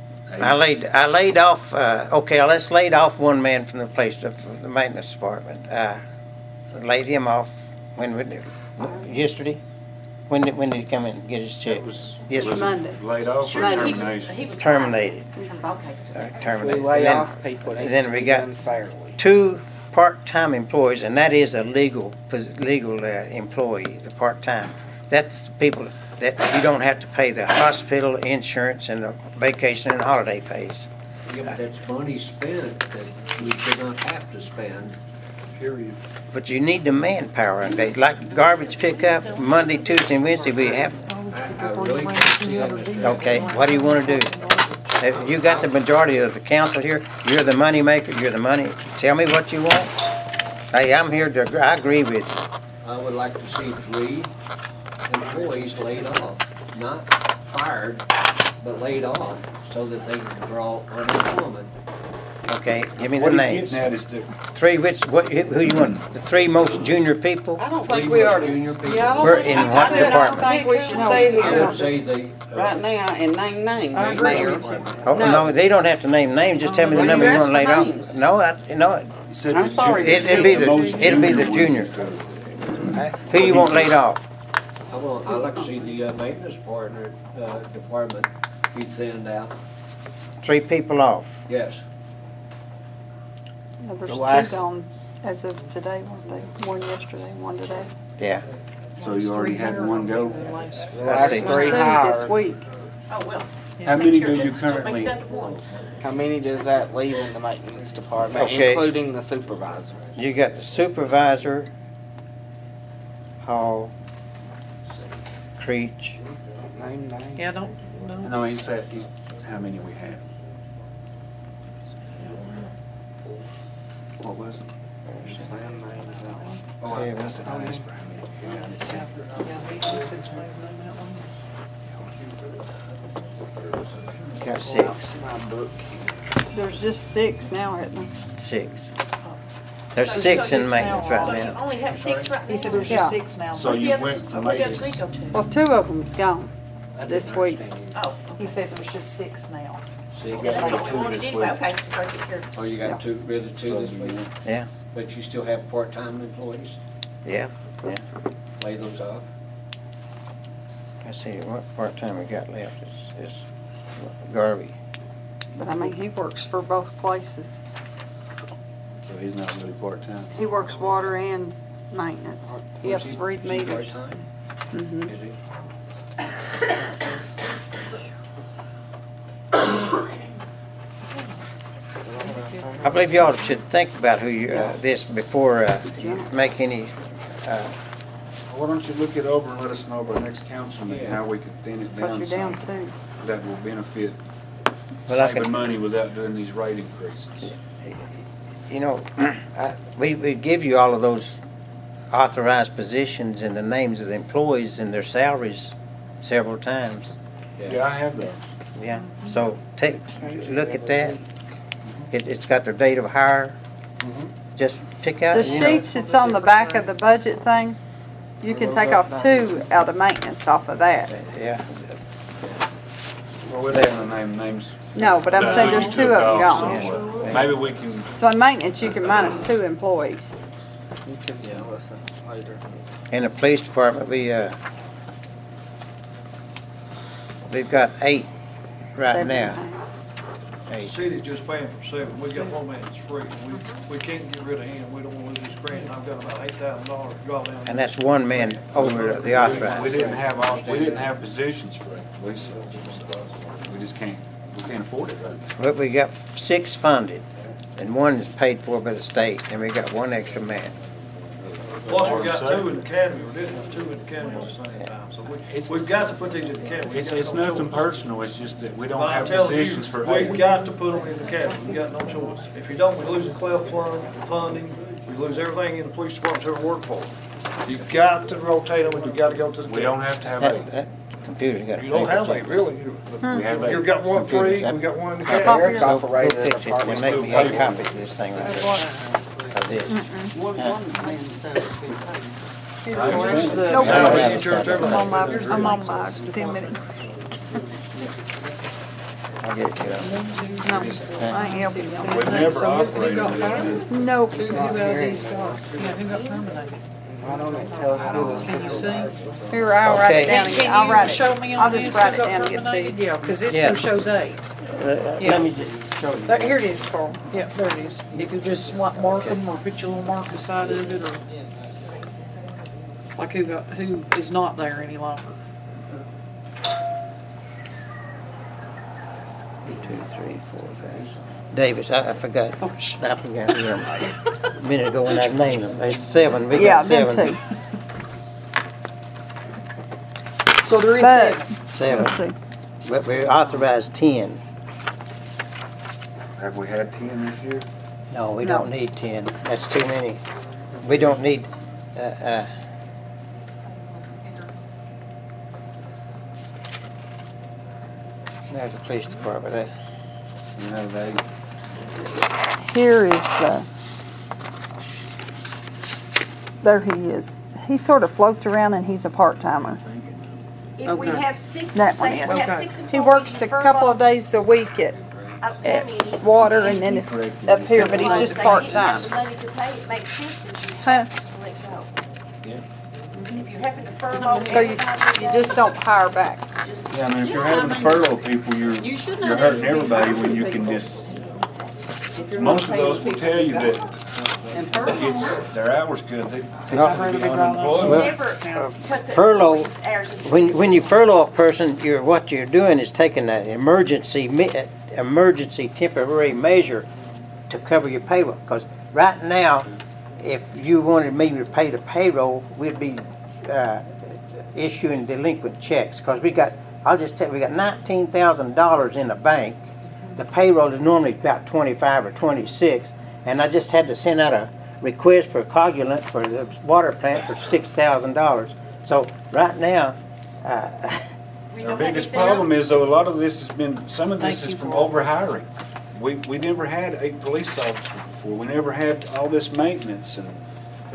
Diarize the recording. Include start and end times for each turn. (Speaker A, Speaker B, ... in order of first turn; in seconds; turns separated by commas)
Speaker A: 0.3-0.6, Speaker B: 0.4-6.0, Speaker B: 6.7-9.6, Speaker B: 10.3-12.7, Speaker A: 11.7-14.3, Speaker C: 12.4-14.0, Speaker D: 13.4-16.6, Speaker B: 14.6-15.3, Speaker C: 15.4-15.7, Speaker B: 16.1-18.4, Speaker E: 16.5-19.2, Speaker B: 19.2-30.9, Speaker F: 31.3-35.0, Speaker A: 35.6-36.0, Speaker B: 36.3-41.0, Speaker G: 37.6-41.0, Speaker H: 41.0-44.8, Speaker F: 41.3-43.7, Speaker B: 43.0-44.3, Speaker B: 45.0-50.1, Speaker B: 50.7-52.4, Speaker F: 52.8-54.3, Speaker F: 55.1-58.1, Speaker F: 58.6-61.7, Speaker B: 62.5-63.9, Speaker A: 63.0-64.3, Speaker B: 64.5-67.6, Speaker G: 67.6-71.9, Speaker F: 67.8-69.7, Speaker H: 69.1-71.9, Speaker B: 69.2-70.5, Speaker C: 70.1-71.9, Speaker F: 71.3-72.8, Speaker G: 72.5-75.5, Speaker H: 73.9-75.0, Speaker F: 74.1-75.5, Speaker B: 75.1-79.1, Speaker H: 76.7-77.5, Speaker G: 76.9-78.2, Speaker A: 79.3-84.0, Speaker G: 79.5-81.4, Speaker B: 79.8-81.9, Speaker B: 82.9-84.2, Speaker F: 84.9-89.5, Speaker B: 90.4-91.4, Speaker F: 91.5-91.8, Speaker C: 93.8-97.9, Speaker E: 94.1-94.6, Speaker B: 98.2-98.5, Speaker A: 99.0-100.8, Speaker H: 99.0-101.8, Speaker E: 100.9-102.5, Speaker B: 101.0-101.9, Speaker C: 101.5-102.6, Speaker D: 103.1-105.6, Speaker H: 103.8-104.3, Speaker A: 103.8-105.2, Speaker E: 106.0-110.0, Speaker B: 108.3-108.9, Speaker B: 110.2-111.7, Speaker B: 113.4-113.9, Speaker B: 115.6-116.2, Speaker E: 116.8-117.5, Speaker H: 117.4-118.5, Speaker A: 118.2-120.3, Speaker H: 122.1-122.6, Speaker A: 124.2-124.7, Speaker E: 125.2-126.6, Speaker H: 125.2-125.6, Speaker A: 126.8-129.2, Speaker B: 126.9-127.4, Speaker E: 127.5-127.8, Speaker H: 128.9-131.3, Speaker B: 134.4-135.0, Speaker E: 134.6-136.0, Speaker C: 136.5-138.1, Speaker B: 138.4-138.9, Speaker B: 139.9-141.6, Speaker D: 140.0-145.5, Speaker H: 140.1-141.6, Speaker F: 141.9-142.3, Speaker H: 142.4-144.1, Speaker C: 142.9-143.2, Speaker A: 143.5-145.1, Speaker C: 145.3-146.5, Speaker F: 146.9-148.0, Speaker C: 147.1-147.6, Speaker D: 147.9-148.7, Speaker H: 148.4-149.8, Speaker F: 150.1-150.7, Speaker A: 150.3-151.6, Speaker D: 150.3-152.5, Speaker H: 150.8-151.1, Speaker F: 152.5-154.3, Speaker A: 153.6-154.2, Speaker F: 154.9-156.8, Speaker B: 157.2-158.0, Speaker F: 158.6-159.3, Speaker B: 161.0-163.4, Speaker B: 164.0-164.8, Speaker C: 165.6-167.6, Speaker A: 169.0-170.4, Speaker C: 170.3-174.2, Speaker F: 172.5-174.3, Speaker C: 174.7-175.1, Speaker F: 175.0-175.4, Speaker E: 182.2-183.2, Speaker H: 182.2-182.7, Speaker B: 182.8-187.8, Speaker C: 186.0-186.3, Speaker A: 188.5-194.2, Speaker F: 190.8-191.2, Speaker C: 191.9-192.9, Speaker B: 195.1-195.7, Speaker A: 195.1-197.5, Speaker B: 197.4-198.1, Speaker B: 198.7-201.4, Speaker B: 202.1-207.2, Speaker F: 207.6-207.9, Speaker A: 207.6-208.4, Speaker B: 208.8-211.2, Speaker E: 210.2-211.2, Speaker B: 212.1-213.6, Speaker F: 214.0-214.3, Speaker B: 214.6-215.9, Speaker C: 215.3-217.8, Speaker H: 215.4-216.9, Speaker C: 218.4-221.1, Speaker E: 218.5-219.5, Speaker B: 221.1-221.9, Speaker A: 223.5-228.1, Speaker C: 224.9-227.1, Speaker H: 225.4-227.3, Speaker B: 226.6-227.5, Speaker C: 228.1-230.3, Speaker A: 228.8-229.4, Speaker E: 231.1-232.7, Speaker F: 231.4-231.7, Speaker B: 233.1-234.6, Speaker B: 237.5-238.3, Speaker B: 239.0-239.6, Speaker C: 239.0-239.8, Speaker B: 240.7-241.0, Speaker I: 240.8-249.6, Speaker D: 243.5-243.9, Speaker B: 247.7-249.9, Speaker A: 248.7-255.5, Speaker F: 249.1-251.2, Speaker B: 255.6-257.2, Speaker B: 257.8-260.7, Speaker I: 261.8-267.9, Speaker A: 261.9-262.8, Speaker H: 264.2-264.5, Speaker A: 265.5-265.9, Speaker A: 266.9-270.6, Speaker I: 268.9-277.1, Speaker H: 270.4-272.5, Speaker I: 277.6-280.1, Speaker A: 279.6-280.7, Speaker B: 280.4-282.6, Speaker I: 281.8-285.8, Speaker C: 283.2-283.6, Speaker A: 283.3-284.6, Speaker B: 284.1-288.8, Speaker C: 285.3-286.0, Speaker E: 285.3-287.9, Speaker A: 286.8-288.0, Speaker H: 288.4-289.1, Speaker B: 289.5-290.8, Speaker C: 289.9-290.3, Speaker G: 290.3-292.4, Speaker C: 292.9-296.9, Speaker H: 292.9-294.5, Speaker A: 292.9-294.5, Speaker G: 293.2-293.6, Speaker I: 293.8-296.2, Speaker B: 293.8-295.2, Speaker H: 295.2-296.8, Speaker B: 299.4-300.1, Speaker H: 299.9-306.8, Speaker C: 300.6-302.4, Speaker A: 302.1-303.9, Speaker D: 303.2-304.1, Speaker C: 303.9-304.8, Speaker E: 304.3-306.0, Speaker D: 305.9-306.4, Speaker E: 307.1-309.7, Speaker H: 307.3-309.2, Speaker C: 309.5-313.0, Speaker B: 309.9-310.6, Speaker D: 310.2-311.4, Speaker H: 310.2-314.5, Speaker B: 313.5-313.9, Speaker B: 314.7-316.6, Speaker H: 315.2-315.5, Speaker H: 316.3-321.2, Speaker H: 323.2-325.4, Speaker B: 329.7-337.4, Speaker H: 332.6-333.0, Speaker C: 336.5-337.4, Speaker H: 340.6-342.0, Speaker C: 340.9-342.4, Speaker B: 341.7-342.2, Speaker B: 342.9-344.4, Speaker A: 346.4-347.7, Speaker B: 348.1-350.2, Speaker C: 348.4-348.7, Speaker B: 350.8-352.5, Speaker B: 358.5-359.7, Speaker A: 360.6-361.2, Speaker C: 362.6-363.7, Speaker C: 366.6-369.8, Speaker F: 369.6-370.4, Speaker D: 370.8-374.1, Speaker H: 370.9-371.3, Speaker C: 371.7-375.0, Speaker H: 372.1-372.8, Speaker F: 374.9-375.5, Speaker D: 375.4-377.0, Speaker C: 375.6-379.1, Speaker A: 376.9-378.0, Speaker F: 377.2-377.9, Speaker D: 377.7-381.9, Speaker H: 377.8-379.1, Speaker C: 380.8-381.1, Speaker D: 383.3-385.9, Speaker G: 384.1-384.7, Speaker C: 384.4-386.5, Speaker D: 386.5-387.7, Speaker A: 386.9-391.1, Speaker G: 387.2-388.2, Speaker G: 388.8-390.4, Speaker D: 390.1-393.8, Speaker A: 392.3-393.9, Speaker F: 394.4-394.7, Speaker G: 394.5-395.5, Speaker A: 394.8-398.1, Speaker B: 396.7-397.0, Speaker H: 396.8-398.8, Speaker D: 397.8-401.1, Speaker B: 397.8-399.7, Speaker B: 400.2-406.9, Speaker B: 407.5-409.7, Speaker B: 410.2-431.1, Speaker D: 431.5-432.6, Speaker A: 431.6-440.4, Speaker H: 434.2-435.0